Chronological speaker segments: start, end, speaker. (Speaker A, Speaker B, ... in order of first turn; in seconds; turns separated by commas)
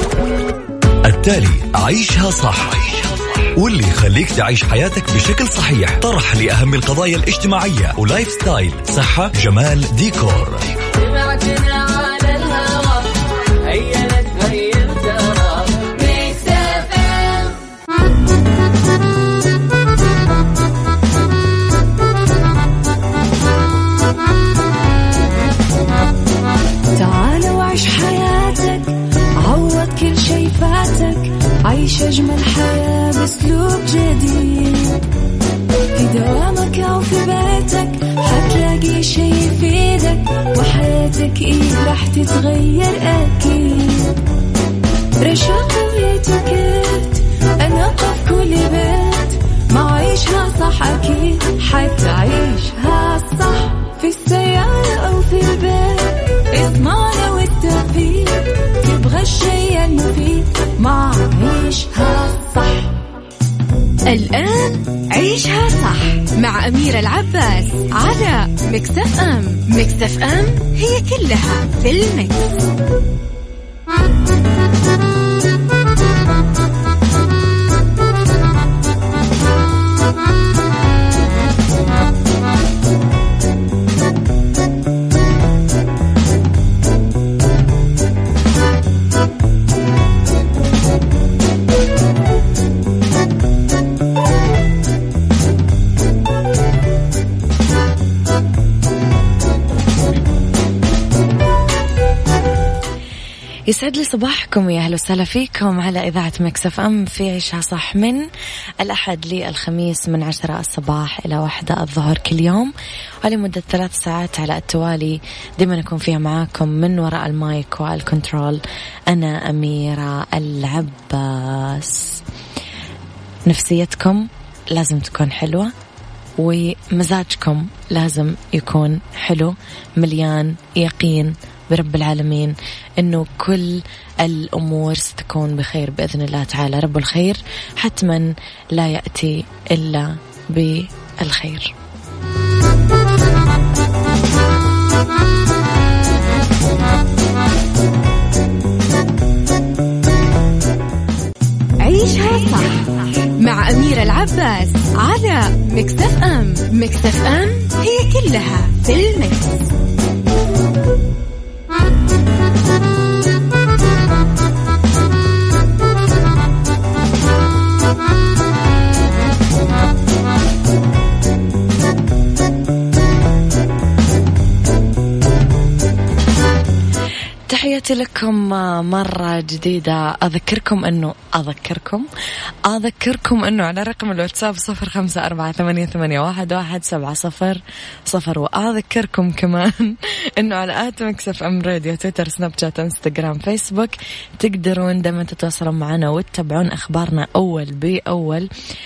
Speaker A: 1.0-11.1, Speaker B: 12.2-12.4, Speaker C: 15.8-17.5, Speaker B: 27.0-35.0, Speaker B: 36.0-44.2, Speaker B: 45.2-63.0, Speaker C: 64.1-72.6, Speaker D: 103.7-108.3, Speaker D: 108.8-112.7, Speaker D: 113.2-122.2, Speaker D: 123.5-125.7, Speaker D: 126.4-141.7, Speaker C: 151.8-159.7, Speaker D: 177.5-182.1, Speaker D: 182.6-198.5